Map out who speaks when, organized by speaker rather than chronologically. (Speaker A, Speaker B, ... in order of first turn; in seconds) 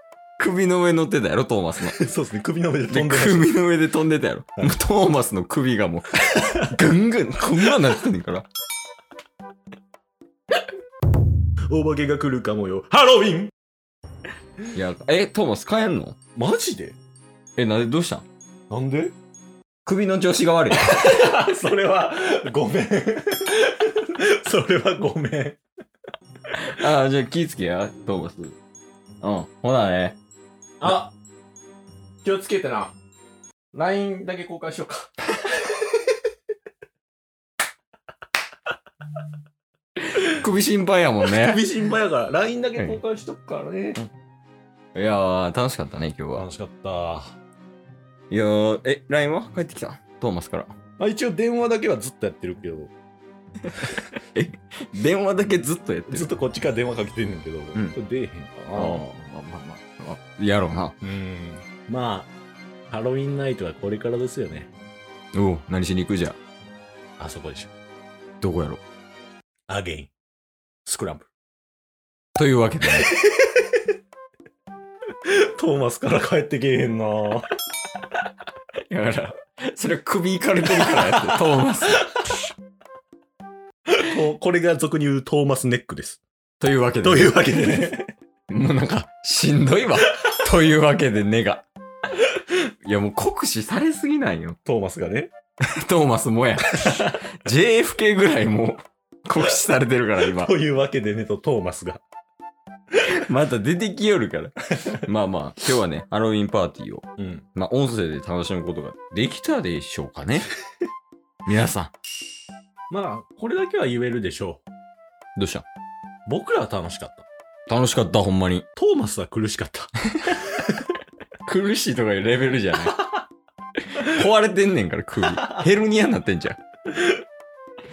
Speaker A: 0.4-2.0, 2.9-8.5, 14.7-16.2, 17.6-18.3, 19.9-21.1, 26.5-28.6, 29.2-30.2, 40.0-41.6, 45.0-46.5, 48.3-50.7, 53.7-56.3, 58.7-61.0, 65.3-66.4, 68.4-68.8, 72.4-73.2, 78.9-82.1, 86.6-87.9, 88.5-91.7, 92.8-94.6, 95.8-100.5, 103.1-110.5, 111.5-111.9, 115.4-115.7, 117.7-118.7, 121.5-123.0, 124.0-126.6
Speaker B: 1.9-3.6, 6.3-6.7, 11.7-13.5, 16.4-17.0, 18.7-19.1, 20.8-25.6, 30.8-31.1, 32.2-33.0, 33.7-35.9, 41.2-44.0, 46.3-47.4, 51.0-52.9, 56.1-59.0, 61.0-62.3, 62.9-64.7, 67.2-67.7, 69.7-70.1, 70.8-71.3, 73.0-73.6, 75.3-77.5, 80.7-81.2, 83.9-86.2, 87.0-88.1, 94.7-95.3, 96.7-97.2, 100.2-102.0, 107.2-107.5, 112.9-114.6, 116.3-117.3, 118.8-119.9